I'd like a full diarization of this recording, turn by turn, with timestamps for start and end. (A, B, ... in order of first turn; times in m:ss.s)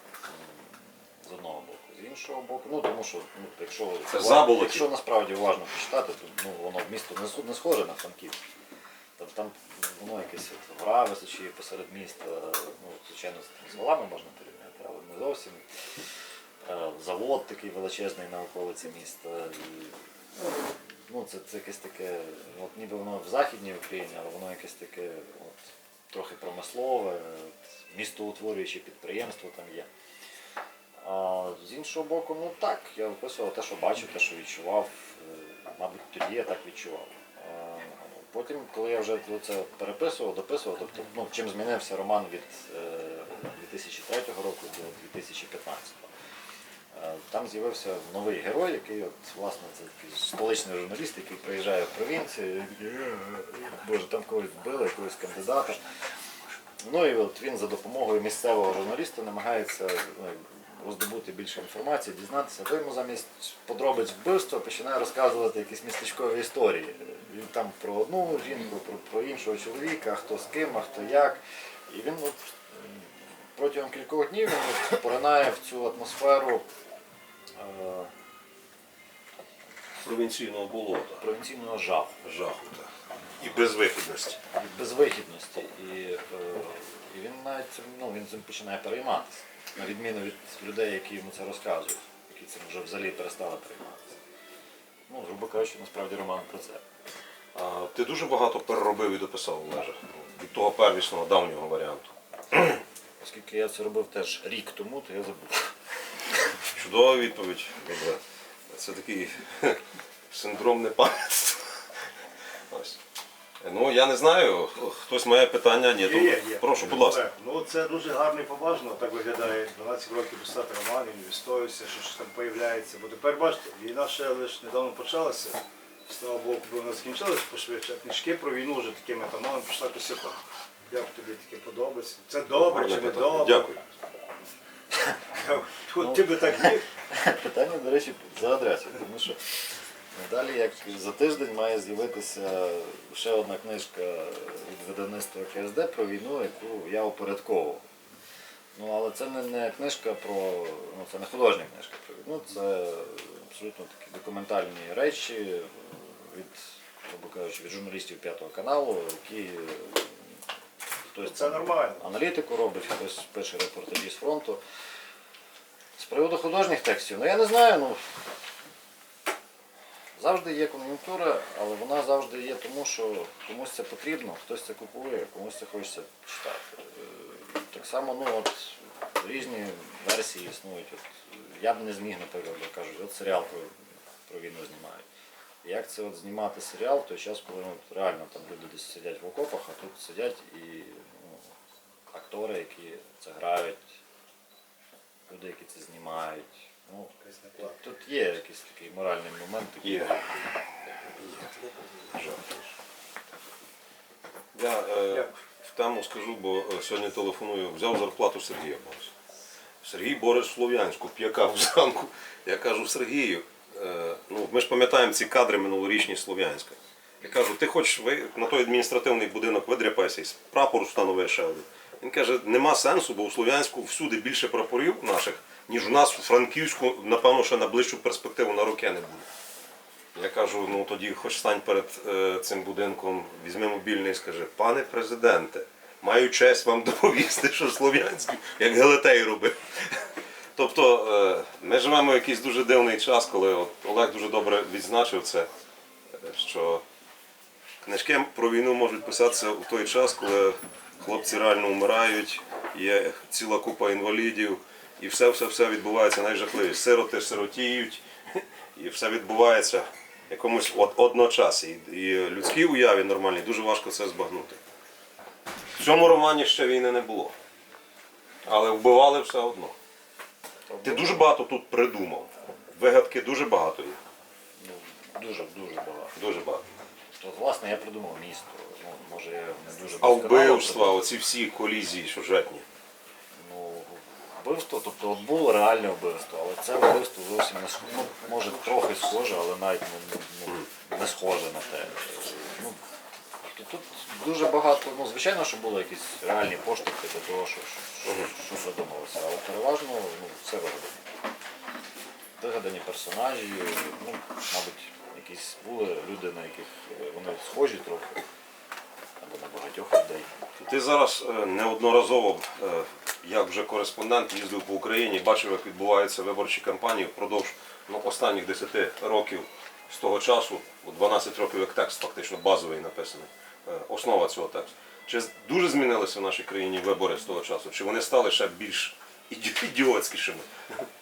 0:00.2-0:08.4 A
0:04.1-0:04.8 B
0:09.2-0:15.8 A
0:16.6-0:20.0 A
0:21.1-0:29.9 A
0:31.0-0:46.1 A
0:46.9-0:55.8 A
0:56.8-1:16.6 A
1:17.6-1:18.1 A
1:20.0-1:21.2 B
1:21.2-1:22.2 A
1:22.2-1:24.4 B
1:24.5-1:34.2 A
1:35.1-1:36.8 A
1:37.5-1:42.8 B
1:43.2-1:45.7 A
1:46.7-1:51.8 B
1:52.7-1:53.0 B
1:53.6-1:57.2 B
1:56.0-2:13.7 C
2:12.6-2:13.8 B
2:15.3-2:16.8 C
2:16.0-2:19.4 A
2:20.1-2:27.8 A
2:28.7-2:40.2 A
2:41.1-2:44.6 A
2:41.2-2:42.0 C
2:46.0-2:48.2 A
2:50.2-3:03.7 A
3:04.3-3:05.0 A
3:05.6-3:11.4 A
3:12.1-3:14.0 A
3:15.3-3:20.5 A
3:17.2-3:17.8 C
3:19.8-3:20.1 B
3:21.2-3:21.6 B
3:22.1-3:22.7 B
3:24.5-3:29.1 B
3:29.8-3:49.3 B
3:50.1-4:05.5 B
4:06.2-4:06.8 B
4:07.8-4:24.6 B
4:25.8-4:27.3 B
4:28.4-4:29.7 B
4:30.7-4:31.3 A
4:30.8-4:34.0 B
4:34.6-4:36.1 A
4:36.1-4:36.6 B
4:37.2-4:41.0 A
4:40.0-4:42.6 B
4:43.4-4:52.8 A
4:53.5-5:01.0 A
5:02.4-5:08.2 A
5:09.2-5:10.3 A
5:10.6-5:30.8 B